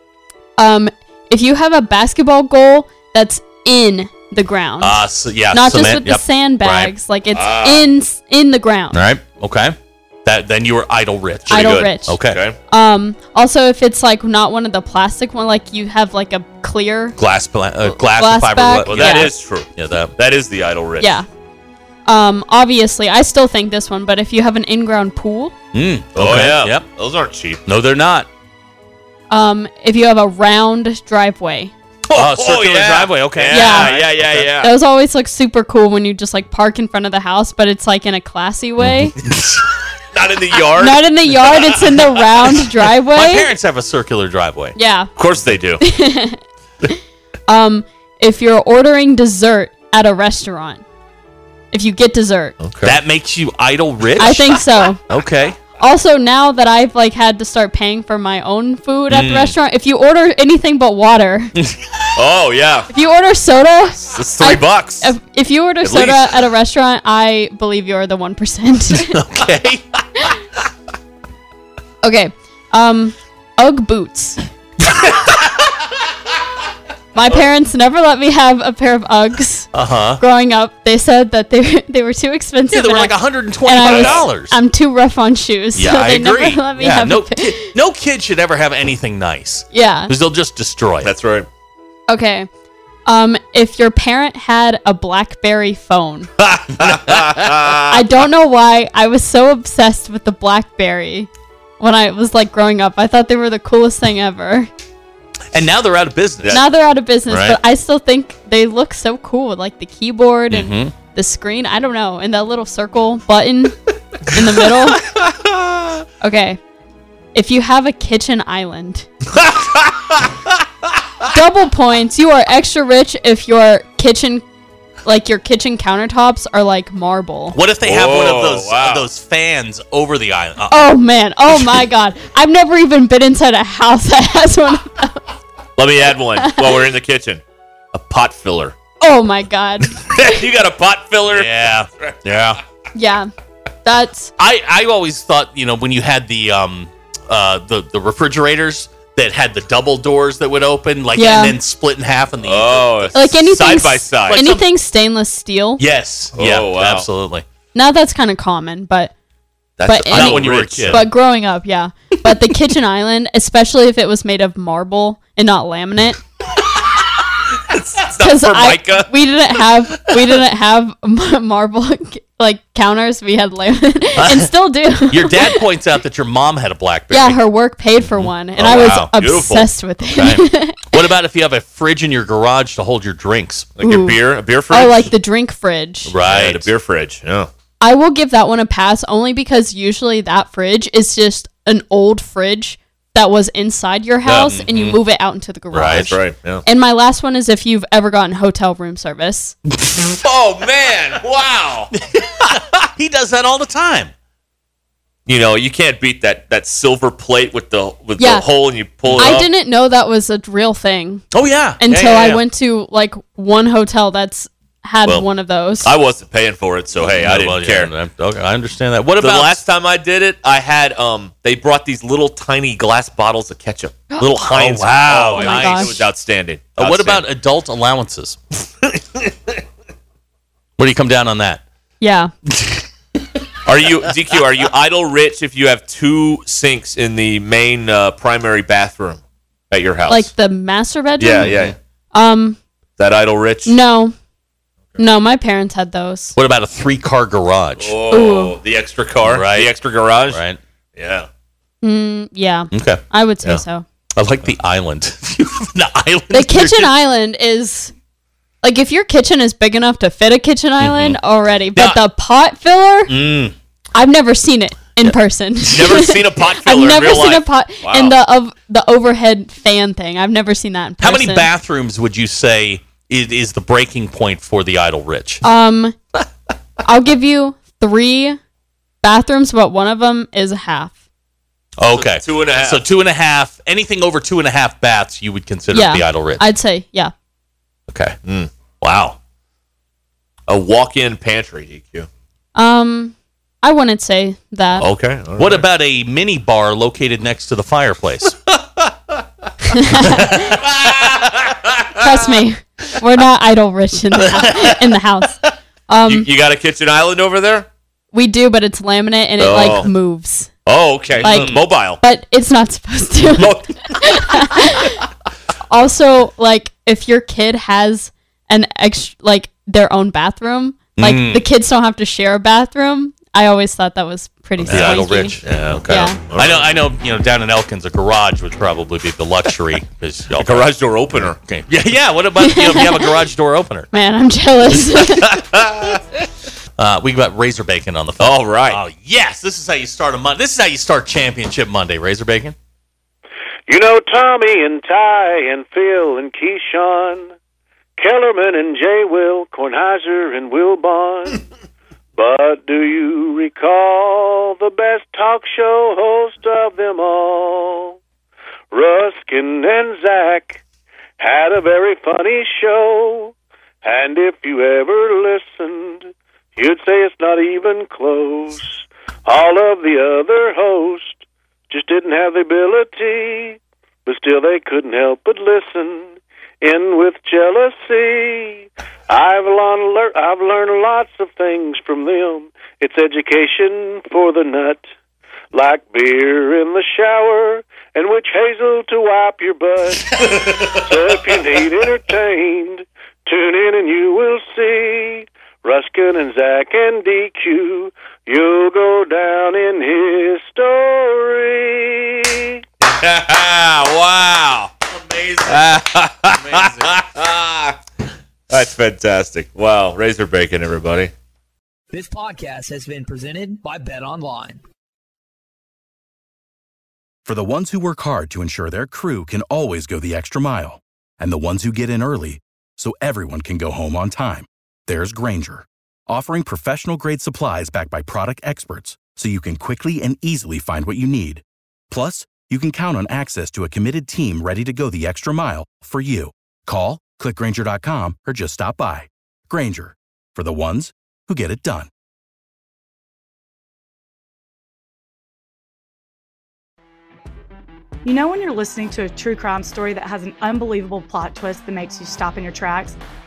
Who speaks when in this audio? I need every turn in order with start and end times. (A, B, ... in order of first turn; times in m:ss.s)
0:00.6-0:09.0 A
0:04.8-0:06.9 B
0:07.3-0:07.9 C
0:08.9-0:12.4 B
0:11.5-0:12.6 C
0:11.5-0:12.2 A
0:12.7-0:17.2 A
0:17.2-0:20.1 B
0:17.8-0:19.3 A
0:18.9-0:21.2 C
0:21.0-0:21.3 A
0:22.1-0:25.6 A
0:25.7-0:26.9 B
0:26.2-0:27.6 C
0:27.7-0:28.3 B
0:29.3-0:31.7 A
0:32.1-0:34.5 B
0:32.1-0:34.7 C
0:33.5-0:34.0 A
0:34.6-0:39.2 A
0:39.3-0:39.6 B
0:40.1-0:42.6 C
0:40.7-0:43.5 A
0:43.1-0:44.8 B
0:44.8-0:45.1 A
0:45.2-0:45.8 C
0:45.8-0:46.4 A
0:47.5-0:50.8 A
0:51.7-0:52.6 A
0:52.6-0:53.0 C
0:52.8-0:55.6 B
0:54.2-0:55.0 A
0:55.8-1:01.5 A
0:59.1-0:59.6 B
1:01.6-1:01.8 B
1:02.2-1:02.9 C
1:02.9-1:09.2 A
1:04.1-1:05.1 C
1:05.8-1:06.5 C
1:09.0-1:10.3 B
1:12.0-1:14.4 A
1:14.9-1:15.4 B
1:17.1-1:27.7 A
1:19.7-1:20.2 B
1:22.7-1:24.6 B
1:23.8-1:24.3 C
1:25.8-1:31.1 B
1:29.7-1:30.1 A
1:31.0-1:31.5 C
1:32.1-1:32.5 A
1:33.1-1:36.3 A
1:36.5-1:37.9 C
1:36.8-1:37.6 B
1:37.9-1:41.3 A
1:41.8-1:44.7 A
1:45.5-1:46.6 B
1:46.5-1:53.8 A
1:47.3-1:47.6 B
1:50.5-1:50.9 B
1:54.3-1:55.0 A
1:55.0-1:55.9 C
1:56.2-1:56.6 A
1:57.3-1:59.1 A
1:59.4-2:00.2 C
2:01.3-2:04.4 A
2:05.0-2:07.6 A
2:07.5-2:10.9 B
2:07.8-2:09.1 C
2:10.7-2:15.3 A
2:15.8-2:17.4 C
2:16.4-2:16.8 A
2:17.9-2:18.8 C
2:19.0-2:20.0 A
2:20.0-2:22.2 C
2:21.3-2:22.6 B
2:23.0-2:23.3 A
2:23.8-2:24.3 A
2:24.4-2:33.3 B
2:31.2-2:31.6 A
2:32.4-2:34.4 C
2:33.1-2:35.8 A
2:34.3-2:34.6 B
2:35.8-2:37.4 B
2:36.3-2:37.1 C
2:37.8-2:39.1 A
2:39.8-2:41.1 C
2:39.9-2:46.2 A
2:40.1-2:41.1 B
2:47.5-2:49.2 C
2:48.2-2:55.6 A
2:54.2-2:54.5 B
2:55.1-2:57.4 B
2:57.1-3:00.8 A
2:58.1-2:59.1 B
2:58.6-2:59.7 C
3:00.1-3:03.8 B
3:03.8-3:05.1 C
3:03.8-3:04.2 A
3:04.7-3:06.2 A
3:06.1-3:06.7 B
3:06.2-3:07.5 C
3:07.8-3:19.6 A
3:14.2-3:15.0 B
3:15.7-3:16.1 B
3:15.9-3:16.6 C
3:20.1-3:21.9 C
3:21.9-3:24.1 B
3:25.3-3:29.5 C
3:28.2-3:28.5 A
3:29.1-3:29.4 B
3:29.2-3:31.2 A
3:31.3-3:32.4 B
3:31.8-3:35.9 A
3:35.8-3:37.9 C
3:37.0-3:39.6 B
3:39.2-3:47.3 C
3:44.2-3:46.0 B
3:45.3-3:46.0 A
3:46.8-3:48.4 B
3:50.8-3:51.6 B
3:52.0-3:52.3 A
3:52.6-3:52.8 B
3:53.6-4:00.3 C
4:00.1-4:01.5 A
4:01.2-4:01.8 C
4:01.4-4:01.7 B
4:02.1-4:02.6 A
4:03.0-4:03.8 C
4:03.7-4:04.1 A
4:05.0-4:06.4 A
4:06.4-4:08.0 B
4:07.8-4:10.4 C
4:08.1-4:08.6 A
4:09.2-4:09.7 B
4:10.3-4:10.6 B
4:11.0-4:11.3 C
4:11.8-4:13.8 A
4:12.7-4:13.0 B
4:14.2-4:16.9 B
4:16.3-4:17.9 A
4:18.6-4:23.1 A
4:20.8-4:21.2 B
4:21.8-4:22.0 B
4:23.1-4:23.6 B
4:23.9-4:31.5 A
4:25.7-4:28.2 C
4:25.7-4:26.0 B
4:31.0-4:35.4 B
4:35.4-4:36.0 A
4:36.9-4:38.4 A
4:39.0-4:40.9 A
4:41.8-4:46.4 B
4:41.9-4:42.8 C
4:45.7-4:47.1 A
4:47.9-4:48.2 B
4:48.2-4:48.5 C
4:48.8-4:49.2 B
4:50.5-4:52.1 C
4:52.6-4:54.9 A
4:54.8-4:55.7 C
4:55.4-4:58.4 B
4:59.7-5:00.6 A
5:00.1-5:01.3 B
5:00.6-5:02.0 C
5:02.0-5:05.4 A
5:04.2-5:04.7 B
5:05.9-5:06.3 A
5:06.1-5:07.7 C
5:08.1-5:10.5 A
5:09.4-5:09.9 C
5:10.6-5:12.0 C
5:11.2-5:15.0 A
5:11.2-5:11.6 B
5:13.4-5:14.6 C
5:15.7-5:26.2 A
5:21.0-5:21.4 B
5:24.6-5:25.0 C
5:24.7-5:33.9 B
5:25.6-5:26.7 C
5:30.4-5:31.4 C
5:32.4-5:33.1 A
5:33.9-5:35.2 A
5:35.0-5:35.4 B
5:35.3-5:36.0 C
5:36.8-5:42.6 B
5:38.2-5:38.8 C
5:43.7-5:47.4 D
5:48.0-5:51.4 D
5:52.2-5:58.0 D
5:58.7-6:00.6 D
6:01.2-6:24.9 D
6:25.5-6:30.1 D
6:30.1-6:30.8 C
6:30.8-6:42.6 D
6:42.8-6:44.8 C
6:45.1-6:46.9 B
6:45.4-6:47.8 C
6:48.5-6:51.1 C
6:51.9-6:54.6 E
6:57.2-7:21.9 F
7:28.0-7:33.0 G